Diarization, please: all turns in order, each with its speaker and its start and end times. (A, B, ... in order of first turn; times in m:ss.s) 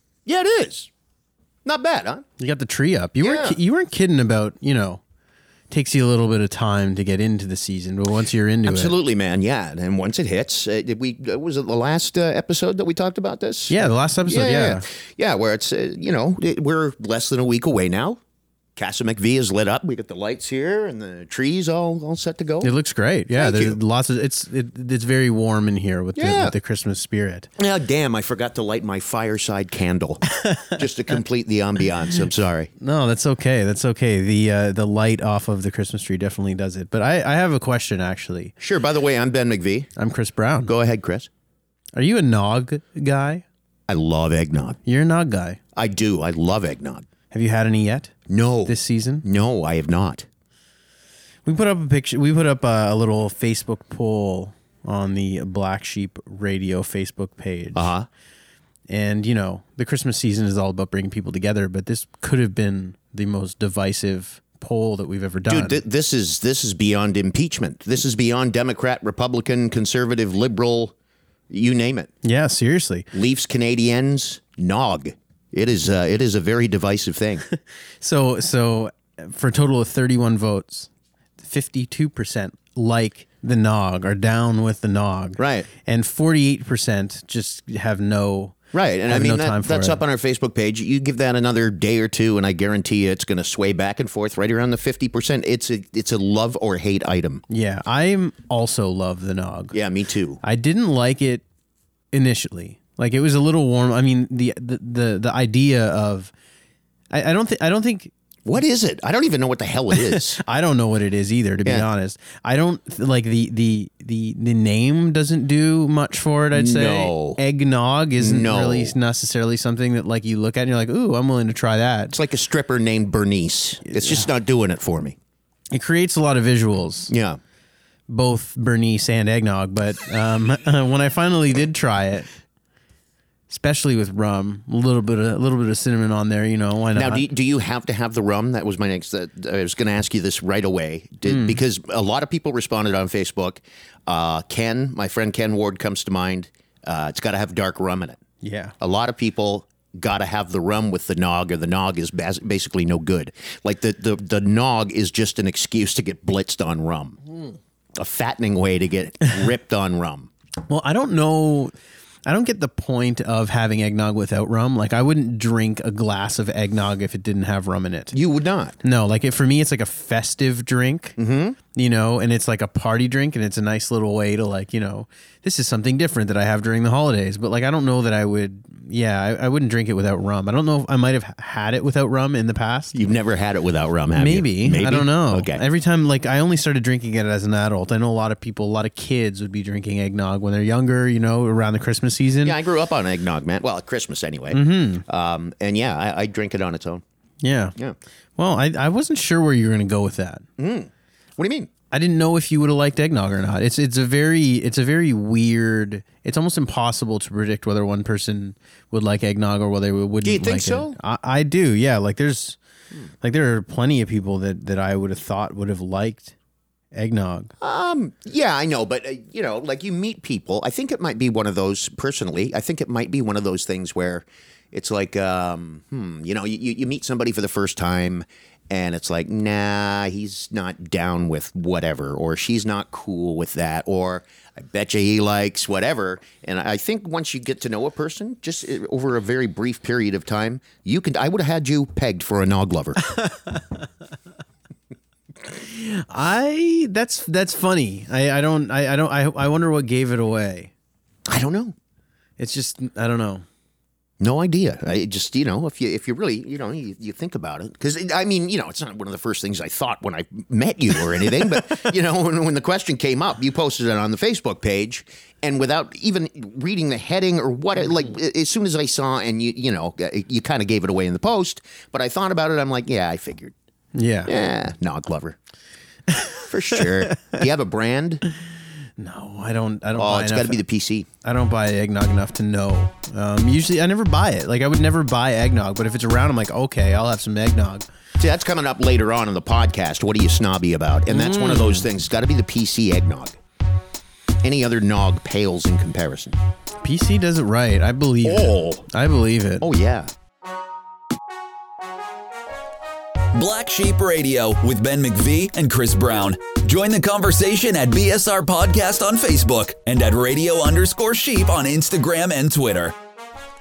0:00.2-0:00.9 A
0:01.6-0:02.2 A
0:02.4-0:05.0 B
0:03.2-0:03.6 A
0:05.7-0:08.9 B
0:08.6-0:18.2 A
0:13.7-0:14.8 B
0:18.8-0:22.7 A
0:22.6-0:27.5 B
0:23.3-0:23.8 A
0:26.2-0:26.5 A
0:27.6-0:32.7 A
0:30.4-0:30.8 B
0:32.8-0:38.5 B
0:38.6-0:39.9 A
0:40.0-0:40.7 B
0:40.6-0:41.3 A
0:41.9-0:43.4 B
0:43.9-0:44.8 A
0:44.8-0:45.6 B
0:45.7-0:47.0 A
0:47.3-0:48.1 B
0:48.3-0:50.2 A
0:48.6-0:49.2 B
0:51.4-0:57.9 B
0:57.7-0:58.1 A
0:58.9-1:05.8 B
1:05.5-1:10.9 A
1:11.5-1:12.1 A
1:12.2-1:13.1 B
1:13.1-1:17.4 A
1:17.5-1:28.6 B
1:25.4-1:25.7 A
1:28.7-1:37.4 A
1:29.1-1:30.0 B
1:37.5-1:39.8 B
1:39.7-1:40.4 A
1:40.4-1:41.4 B
1:42.1-1:46.3 B
1:47.1-1:48.1 B
1:48.4-1:50.4 A
1:49.9-2:02.1 B
1:56.5-1:57.4 A
1:58.2-1:58.9 A
2:02.1-2:05.2 A
2:04.0-2:04.2 B
2:05.7-2:07.1 B
2:07.1-2:07.4 A
2:08.1-2:12.3 B
2:13.5-2:17.2 B
2:16.9-2:28.2 A
2:21.2-2:21.6 B
2:28.4-2:28.7 B
2:28.8-2:37.2 A
2:38.0-2:40.3 A
2:40.7-2:41.7 B
2:42.2-2:48.1 B
2:48.1-2:48.8 A
2:48.8-2:51.2 B
2:51.2-2:51.6 A
2:51.7-3:03.0 B
3:02.9-3:05.6 A
3:04.2-3:12.6 B
3:12.4-3:17.0 A
3:14.5-3:15.0 B
3:17.4-3:17.7 B
3:18.4-3:20.4 B
3:20.6-3:21.7 A
3:21.9-3:32.6 B
3:30.2-3:31.0 A
3:33.2-3:36.3 B
3:36.9-3:37.5 B
3:37.6-4:03.0 A
4:03.1-4:03.6 B
4:05.5-4:10.7 B
4:11.3-4:11.7 A
4:12.4-4:13.4 B
4:14.2-4:33.5 A
4:33.9-4:34.3 B
4:34.2-4:35.4 A
4:36.1-4:37.4 B
4:36.4-4:38.2 A
4:39.0-4:40.6 B
4:39.9-4:41.1 A
4:41.2-4:47.9 B
4:48.2-4:53.4 A
4:51.1-4:51.9 B
4:54.4-4:56.4 A
4:56.8-4:59.7 B
4:58.2-4:58.8 A
4:59.6-5:00.1 A
5:03.3-5:12.9 C